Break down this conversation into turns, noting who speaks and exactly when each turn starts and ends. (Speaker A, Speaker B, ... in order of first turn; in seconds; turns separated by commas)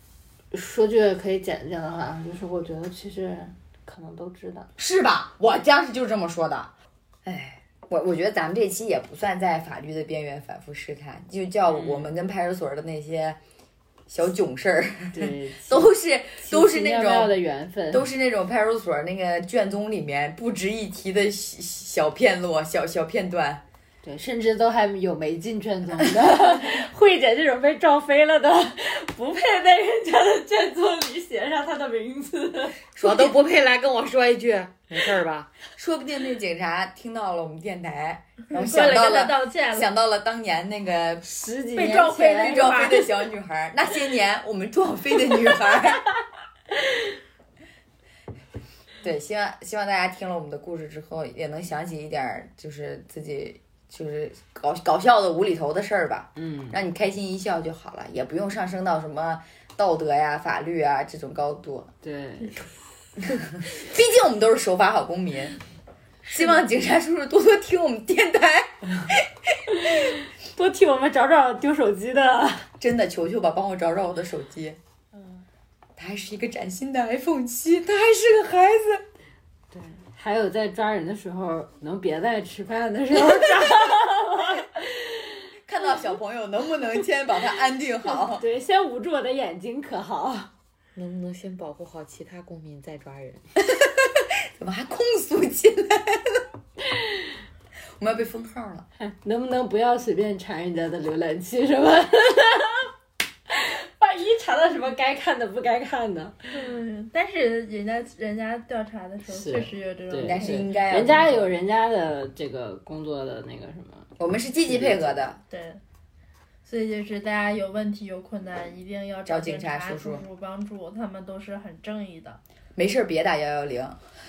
Speaker A: 0.5-4.7, Speaker B: 4.8-6.7, Speaker B: 7.2-13.4, Speaker A: 11.7-12.1, Speaker B: 14.1-17.3, Speaker A: 15.1-18.1, Speaker B: 17.9-23.6, Speaker A: 24.0-32.8, Speaker B: 33.0-33.4, Speaker C: 33.0-35.5, Speaker B: 35.7-41.3, Speaker D: 38.5-39.9, Speaker A: 41.2-43.0, Speaker D: 41.7-43.0, Speaker B: 42.2-46.1, Speaker B: 49.0-61.9, Speaker A: 56.4-56.8, Speaker A: 62.0-62.7, Speaker B: 63.3-65.5, Speaker B: 66.3-69.7, Speaker A: 69.7-72.7, Speaker B: 72.8-74.8, Speaker A: 75.1-75.4, Speaker B: 76.0-79.0, Speaker A: 79.7-85.4, Speaker B: 85.7-88.4, Speaker A: 88.0-90.5, Speaker C: 90.9-93.5, Speaker B: 93.6-96.4, Speaker A: 96.8-97.3, Speaker B: 98.0-98.8, Speaker A: 99.0-102.9, Speaker A: 103.5-106.7, Speaker D: 106.5-110.7, Speaker A: 109.3-114.1, Speaker B: 110.2-111.5, Speaker B: 114.2-115.4, Speaker A: 114.7-115.2, Speaker D: 115.5-115.8, Speaker D: 116.6-122.4, Speaker B: 119.2-120.2, Speaker B: 122.8-124.0